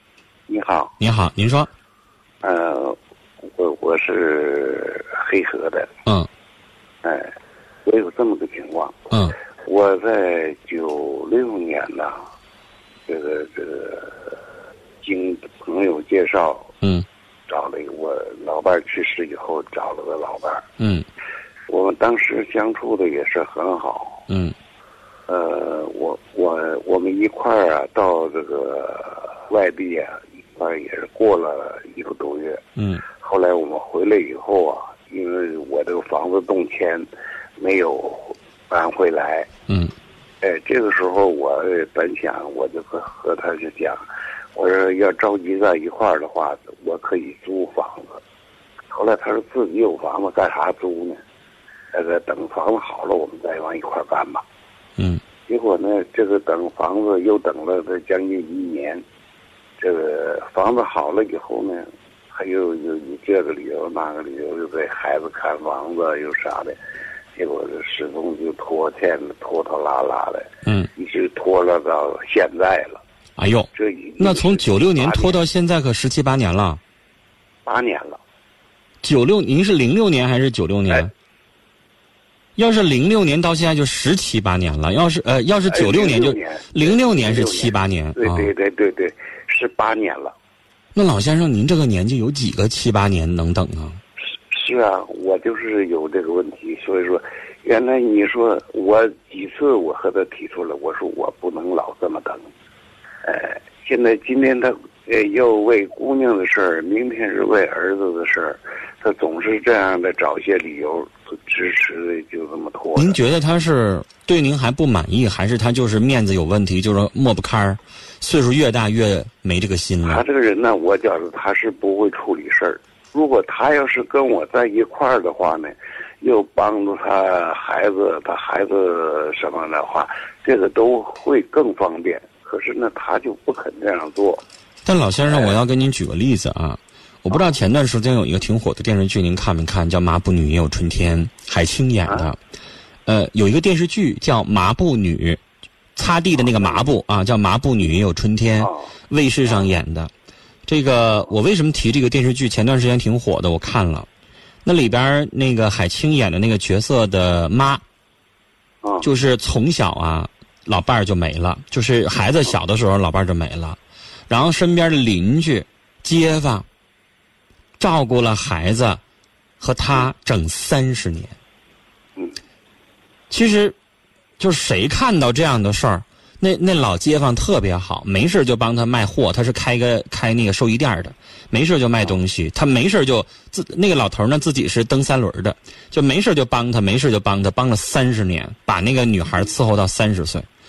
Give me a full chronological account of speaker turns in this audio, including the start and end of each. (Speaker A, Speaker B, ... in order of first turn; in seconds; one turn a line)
Speaker A: 0.5-0.9
Speaker B: 1.0-1.7
Speaker A: 2.4-3.0
Speaker A: 3.5-5.9
Speaker A: 7.0-7.3
Speaker A: 7.8-9.1
Speaker B: 9.1-9.3
Speaker A: 9.7-12.2
Speaker A: 13.1-14.3
Speaker A: 15.0-16.7
Speaker A: 17.5-20.6
Speaker B: 20.8-21.0
Speaker A: 21.7-24.2
Speaker B: 24.3-24.5
Speaker A: 25.3-32.6
Speaker B: 32.8-33.0
Speaker A: 33.1-37.1
Speaker A: 37.6-39.5
Speaker A: 40.4-44.0
Speaker A: 44.5-48.2
Speaker A: 48.9-51.2
Speaker A: 51.9-54.4
Speaker A: 55.5-59.0
Speaker A: 59.8-66.8
Speaker A: 67.3-73.0
Speaker B: 73.4-76.8
Speaker A: 73.7-75.4
Speaker A: 77.6-78.2
Speaker B: 79.0-81.1
Speaker B: 82.5-88.5
Speaker A: 85.7-90.3
Speaker B: 90.9-94.0
Speaker A: 94.5-102.5
Speaker A: 103.2-113.2
Speaker B: 113.0-120.2
Speaker A: 120.0-134.4
Speaker B: 134.8-142.4
Speaker A: 135.3-135.6
Speaker B: 143.1-145.4
Speaker B: 145.9-150.1
Speaker A: 148.6-148.9
Speaker B: 150.7-154.1
Speaker B: 154.6-157.8
Speaker B: 159.0-163.8
Speaker B: 164.3-166.6
Speaker B: 167.8-169.0
Speaker B: 169.6-171.3
Speaker B: 173.3-173.7
Speaker B: 174.4-190.5